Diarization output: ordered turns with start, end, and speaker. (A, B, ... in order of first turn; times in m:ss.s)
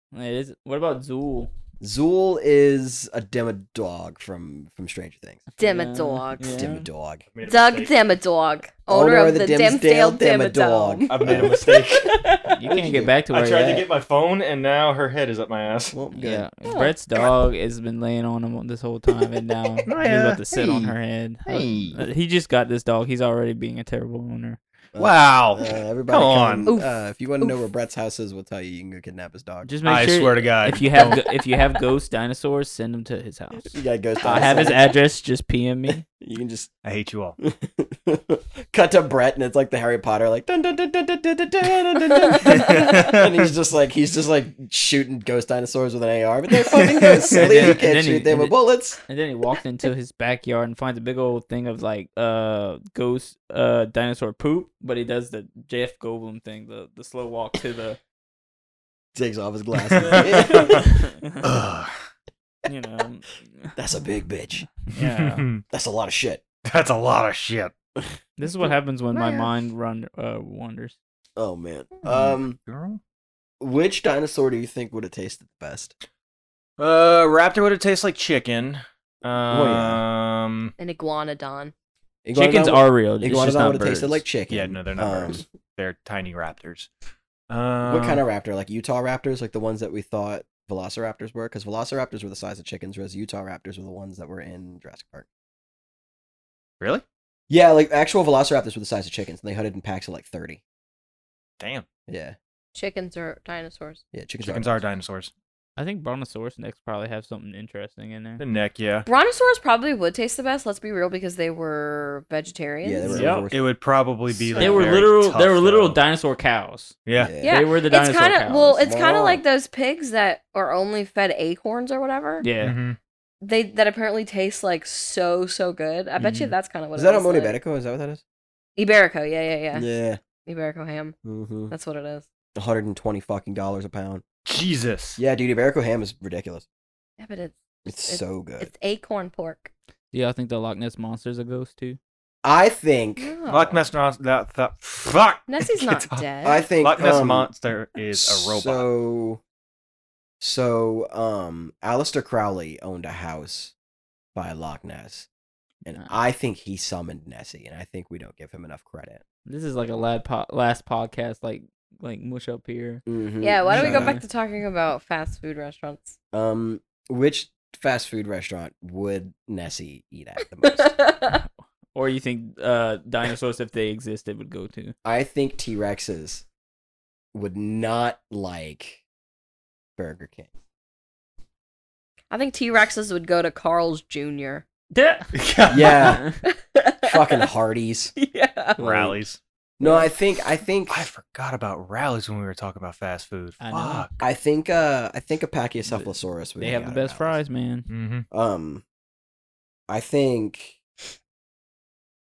0:00.1-0:01.5 A
0:01.8-0:05.4 B
0:05.6-0:06.9 A
0:05.6-0:06.6 C
0:06.4-0:07.2 B
0:07.3-0:07.9 D
0:07.4-0:12.6 C
0:08.9-0:11.6 B
0:11.1-0:12.2 D
0:12.5-0:13.9 A
0:12.6-0:13.1 B
0:13.3-0:15.9 D
0:15.9-0:16.4 B
0:16.1-0:24.6 A
0:16.6-0:17.3 C
0:19.9-0:20.9 D
0:21.4-0:22.0 D
0:24.9-0:29.7 B
0:25.0-0:26.7 D
0:26.6-0:27.6 C
0:29.6-0:36.0 A
0:29.9-0:31.2 D
0:33.7-0:34.9 B
0:36.2-0:36.7 B
0:36.8-0:37.4 D
0:37.4-0:49.0 B
0:42.4-0:43.5 D
0:46.7-0:47.8 D
0:47.3-0:48.6 A
0:49.0-0:58.0 A
0:59.1-1:00.8 B
0:59.9-1:00.8 D
1:00.0-1:01.4 A
1:01.4-1:01.9 D
1:02.6-1:03.7 A
1:03.8-1:04.6 B
1:04.8-1:05.4 A
1:04.9-1:05.6 D
1:05.7-1:06.4 B
1:06.6-1:07.7 D
1:08.4-1:11.0 A
1:09.1-1:09.5 C
1:11.4-1:12.6 B
1:12.0-1:13.0 D
1:13.6-1:15.9 B
1:16.8-1:20.7 D
1:19.5-1:20.0 B
1:20.8-1:21.7 C
1:22.2-1:25.4 B
1:22.3-1:24.2 A
1:24.5-1:26.9 D
1:27.5-1:28.2 D
1:27.8-1:35.2 B
1:37.5-1:40.6 B
1:41.6-1:41.9 D
1:42.1-1:42.4 B
1:42.7-1:44.0 C
1:44.1-1:44.8 B
1:44.4-1:45.3 D
1:45.8-1:48.4 A
1:48.4-1:49.1 D
1:49.1-1:53.1 C
1:52.8-1:53.7 B
1:53.1-1:56.0 D
1:53.1-1:53.5 A
1:54.3-1:55.0 B
1:54.6-1:58.8 A
1:57.0-1:57.3 D
1:57.2-1:57.6 B
1:57.4-2:02.4 C
1:58.8-1:59.4 B
2:02.4-2:02.7 A
2:02.6-2:03.0 D
2:03.4-2:07.6 C
2:06.2-2:06.5 A
2:07.0-2:08.2 B
2:08.8-2:09.9 C
2:09.7-2:10.2 B
2:10.4-2:11.1 C
2:11.2-2:11.7 B
2:11.7-2:12.3 C
2:12.6-2:14.2 B
2:14.4-2:15.2 D
2:15.2-2:16.6 B
2:17.2-2:19.7 C
2:17.9-2:18.7 B
2:20.1-2:22.0 A
2:22.4-2:23.3 B
2:23.2-2:23.8 C
2:23.5-2:26.3 D
2:25.5-2:26.7 C
2:26.4-2:27.5 B
2:26.8-2:28.9 D
2:28.2-2:29.4 B
2:30.4-2:33.7 B
2:34.3-2:35.3 B
2:35.8-2:39.2 B
2:39.4-2:43.0 A
2:43.0-2:44.2 B
2:43.4-2:46.2 C
2:43.7-2:44.2 A
2:46.3-2:51.0 B
2:50.6-2:51.4 C
2:51.2-2:54.9 A
2:55.0-2:56.4 B
2:57.3-2:59.0 B
3:00.0-3:00.5 B
3:02.3-3:04.6 C
3:04.9-3:05.3 A
3:05.3-3:06.1 D
3:05.7-3:06.3 B
3:06.0-3:06.4 A
3:06.5-3:07.5 C
3:07.0-3:08.1 B
3:08.2-3:08.8 C
3:08.8-3:09.2 B
3:08.8-3:09.4 D
3:09.8-3:11.1 B
3:09.8-3:10.1 C
3:10.9-3:14.1 D
3:13.6-3:14.1 A
3:14.2-3:17.4 B
3:15.9-3:17.9 A
3:17.9-3:18.2 D
3:18.3-3:18.8 B
3:19.9-3:20.8 B